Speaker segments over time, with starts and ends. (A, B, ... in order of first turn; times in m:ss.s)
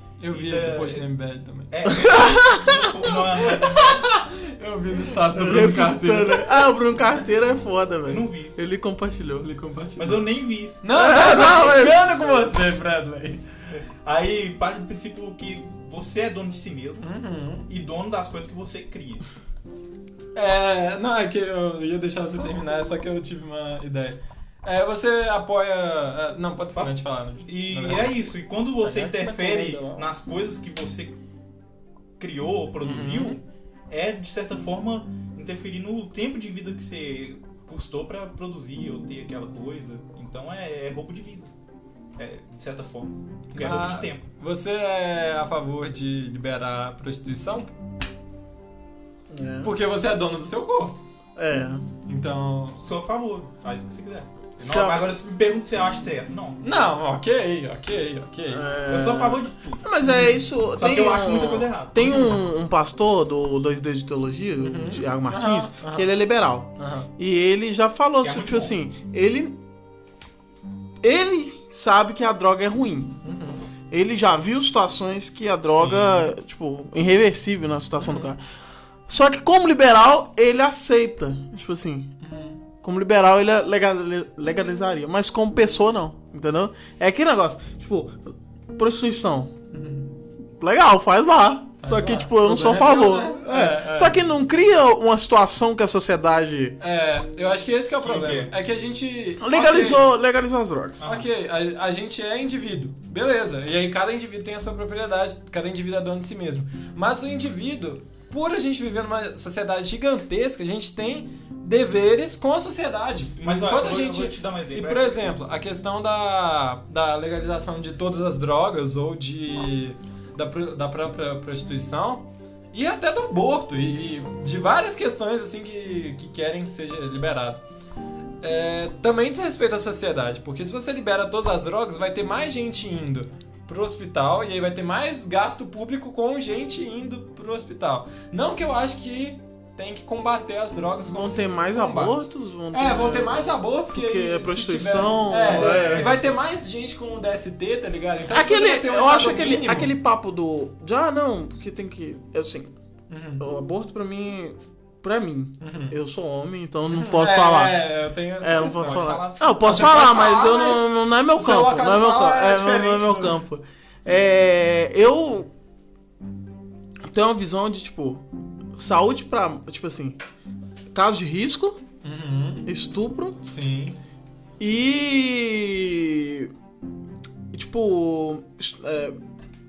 0:00.2-0:01.7 A
0:00.3-0:01.0 B
0:01.7-0:04.0 B
0:01.8-0:03.1 C
0:03.7-0:06.7 A
0:05.3-0:09.5 C
0:08.1-0:08.6 B
0:09.4-0:10.2 A
0:10.0-0:11.5 B
0:10.8-0:13.4 A
0:10.9-0:12.4 C
0:13.7-0:17.1 B
0:17.0-0:17.7 A
0:17.7-0:19.2 B
0:20.3-0:30.0 A
0:26.7-0:31.2 B
0:32.2-0:41.5 B
0:32.8-0:33.4 A
0:42.2-0:44.2 B
0:43.5-0:47.7 A
0:49.3-0:49.7 C
0:49.6-0:51.0 A
0:51.4-0:51.8 C
0:52.0-0:52.8 A
0:52.8-0:56.6 B
0:54.6-0:55.1 C
0:56.6-0:58.7 A
0:58.5-1:09.6 C
0:58.9-1:02.4 B
1:04.6-1:06.1 A
1:06.8-1:07.1 A
1:08.2-1:08.7 B
1:11.0-1:13.2 C
1:13.2-1:13.6 A
1:13.9-1:18.4 C
1:15.7-1:16.3 A
1:18.0-1:18.3 A
1:19.1-1:22.1 C
1:22.2-1:22.6 A
1:22.8-1:29.5 C
1:29.7-1:30.1 A
1:30.6-1:36.8 C
1:31.8-1:34.2 A
1:36.8-1:40.0 A
1:38.0-1:38.5 B
1:39.4-1:41.0 C
1:41.0-1:41.3 B
1:41.0-2:07.6 A
1:53.4-1:55.3 B
2:08.4-2:29.9 A
2:21.1-2:26.2 C
2:25.4-2:26.3 B
2:28.3-2:32.7 C
2:33.1-2:33.4 A
2:33.4-2:37.8 C
2:35.6-2:35.9 A
2:36.9-2:43.4 A
2:38.4-2:45.5 C
2:38.8-2:39.7 B
2:47.0-2:48.2 C
2:48.8-2:50.2 C
2:50.9-2:51.8 C
2:52.0-2:52.7 A
2:52.6-2:53.4 C
2:53.4-2:54.0 A
2:54.6-2:56.5 C
2:57.5-2:59.2 C